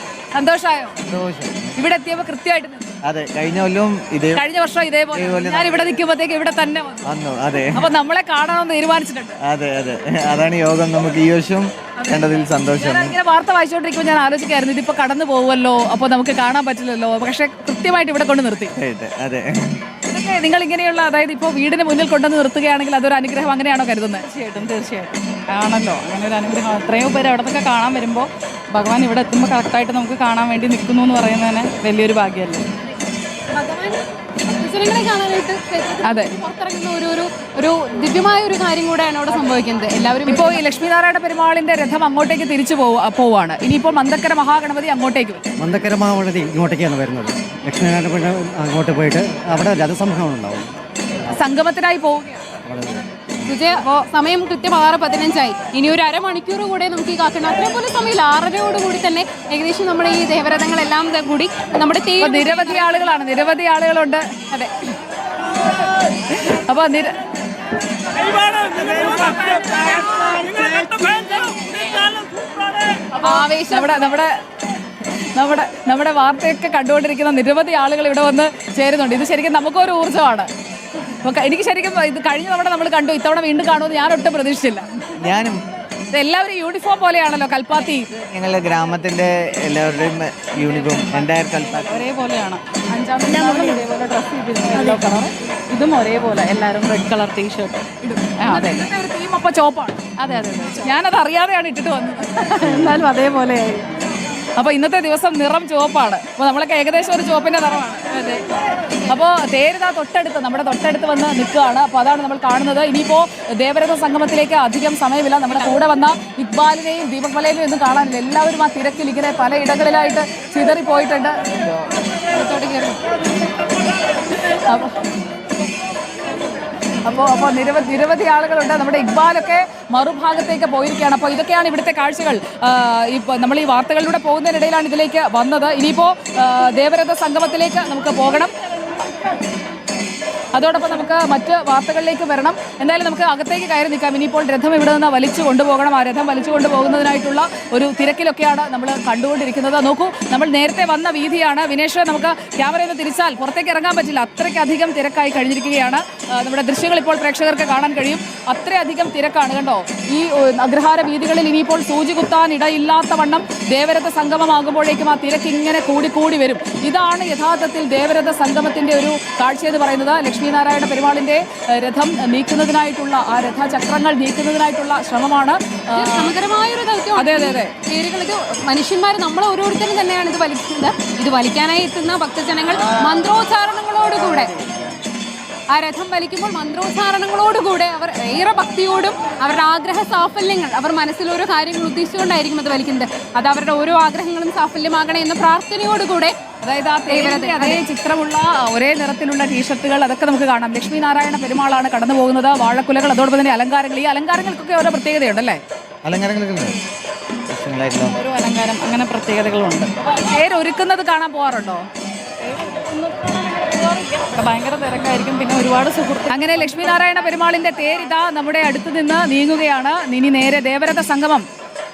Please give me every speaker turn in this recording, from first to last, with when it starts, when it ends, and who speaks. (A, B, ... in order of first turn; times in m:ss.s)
0:00.3-0:01.0 A
0:01.0-0:01.7 B
0:01.8-0:02.9 A
0:03.1-0:04.4 B
0:04.4-0:07.1 A
0:05.1-0:06.0 B
0:07.0-0:07.9 B
0:07.8-0:09.4 A
0:09.4-0:13.2 B
0:12.0-0:18.7 A
0:18.8-0:19.8 B
0:20.1-0:24.3 A
0:24.3-0:25.1 C
0:24.4-0:32.7 D
0:33.5-0:40.6 C
0:36.0-0:36.3 A
0:40.3-0:45.4 A
0:45.6-0:50.7 E
0:51.3-0:52.4 A
0:52.6-0:53.1 E
0:53.4-1:03.1 C
1:02.2-1:04.2 A
1:04.5-1:04.9 C
1:06.3-1:07.2 A
1:09.0-1:09.6 C
1:10.4-1:11.6 C
1:13.2-1:14.4 A
1:13.2-1:14.1 C
1:15.4-1:20.5 A
1:21.2-1:25.0 A
1:25.2-1:25.6 B
1:26.1-1:28.1 A
1:28.2-1:32.1 B
1:30.6-1:38.8 C
1:33.3-1:34.0 D
1:36.9-1:37.3 D
1:38.4-1:40.1 A
1:40.2-1:40.9 C
1:40.8-1:42.6 A
1:42.4-1:43.8 C
1:44.6-1:48.5 A
1:49.1-2:01.9 A
1:55.5-1:55.8 C
2:02.3-2:03.2 C
2:04.6-2:05.0 A
2:07.0-2:18.5 A
2:20.5-2:56.3 A
2:55.9-3:04.7 C
2:57.2-2:57.7 A
3:05.7-3:16.4 C
3:16.6-3:25.6 A
3:17.1-3:17.8 C
3:26.0-3:26.8 B
3:27.5-3:28.2 B
3:28.1-3:29.9 D
3:30.0-3:31.9 A
3:32.6-3:36.4 D
3:33.8-3:34.4 C
3:35.5-3:37.9 C
3:36.3-3:41.5 A